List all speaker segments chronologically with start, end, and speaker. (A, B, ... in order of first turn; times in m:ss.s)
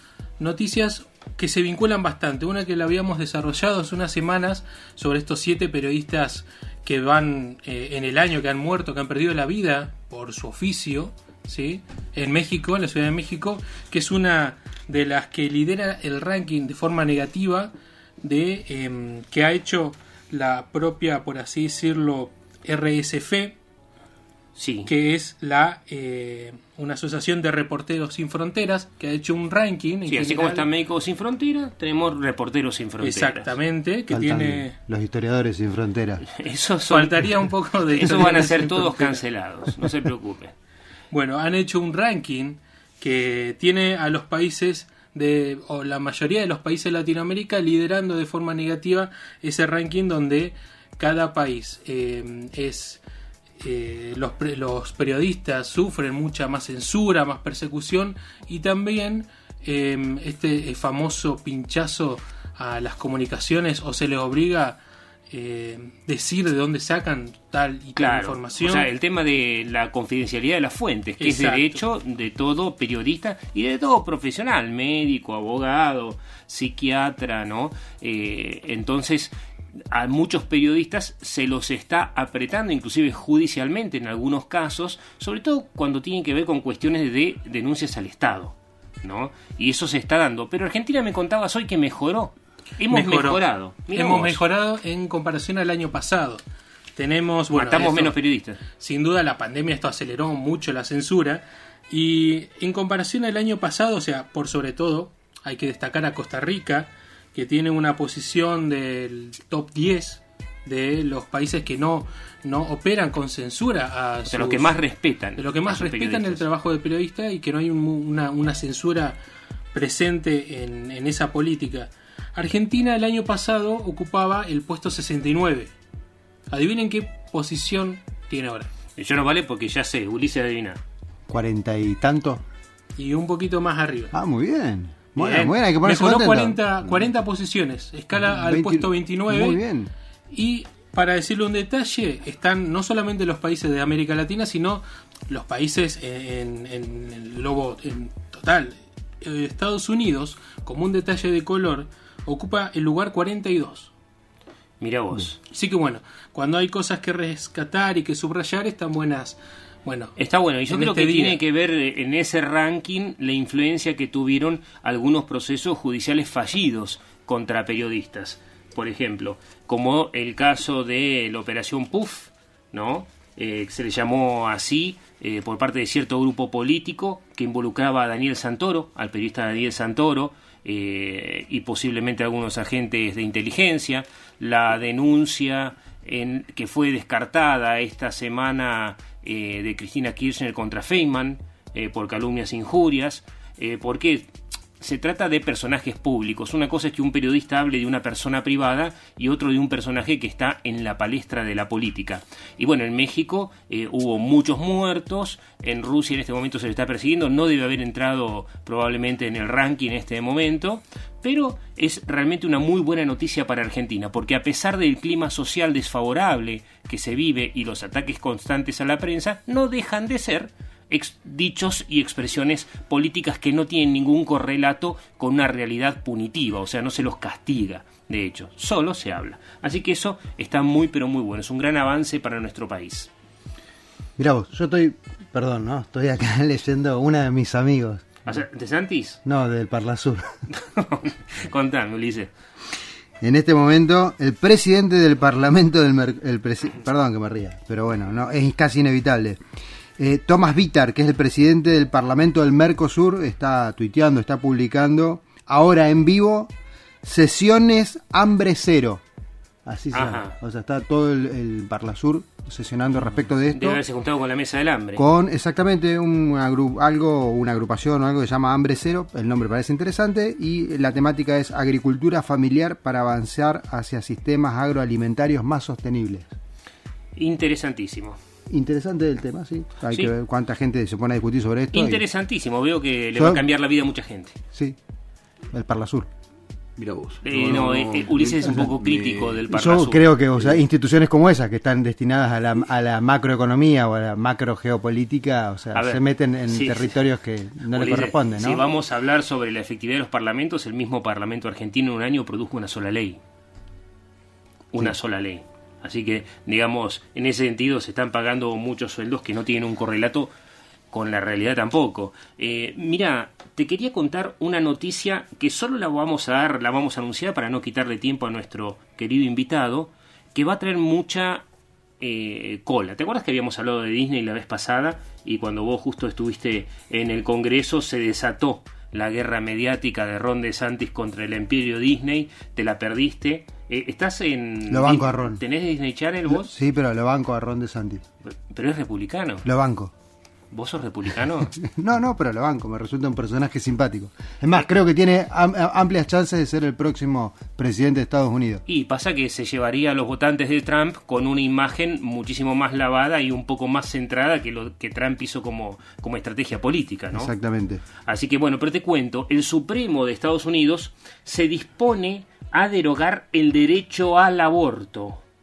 0:00.4-0:23.6 A
0:24.6-0:24.9 B
0:24.8-0:30.7 A
0:30.1-0:33.5 B
0:33.0-0:34.7 A
0:34.1-0:36.2 C
0:36.4-0:37.1 B
0:36.9-0:39.2 A
0:37.9-0:40.5 B
0:41.1-0:53.0 A
0:53.6-1:08.9 A
1:08.0-1:19.3 B
1:11.2-1:11.8 A
1:19.9-1:34.4 B
1:32.9-1:33.4 A
1:33.9-1:36.4 A
1:37.0-1:38.1 A
1:37.5-1:38.6 B
1:38.8-1:54.8 A
1:54.3-1:56.4 B
1:55.4-1:59.2 A
1:59.7-2:05.7 A
2:06.5-2:08.7 A
2:09.0-2:10.8 B
2:11.3-2:12.4 C
2:13.0-2:14.1 A
2:14.1-2:17.0 C
2:15.1-2:19.6 A
2:18.1-2:19.9 C
2:20.3-2:33.9 A
2:34.8-2:35.4 B
2:35.5-2:40.1 A
2:40.2-3:53.1 B
2:40.7-2:41.4 A
3:54.2-3:58.2 C
3:58.2-3:59.2 B
3:59.2-4:00.4 C
4:00.5-4:02.3 B
4:03.2-4:09.4 C
4:10.0-4:16.5 C
4:17.0-4:19.0 C
4:19.6-4:23.8 C
4:19.9-4:20.3 B
4:23.5-4:25.0 B
4:25.0-4:36.3 C
4:37.2-4:38.2 B
4:38.5-4:42.0 C
4:41.7-4:44.4 B
4:43.2-4:43.4 C
4:45.5-4:46.1 C
4:46.8-4:49.4 D
4:47.2-4:50.1 B
4:49.5-4:58.6 C
4:55.7-4:57.0 B
4:57.7-5:03.2 B
5:04.7-5:10.3 B
5:10.9-5:21.4 B
5:22.0-5:36.5 B
5:34.7-5:35.4 C
5:36.3-5:38.0 C
5:38.2-5:39.4 B
5:39.4-5:39.9 C
5:40.5-5:41.5 B
5:41.6-5:48.6 C
5:48.7-5:57.3 B
5:57.1-5:57.8 C
5:58.0-6:05.2 B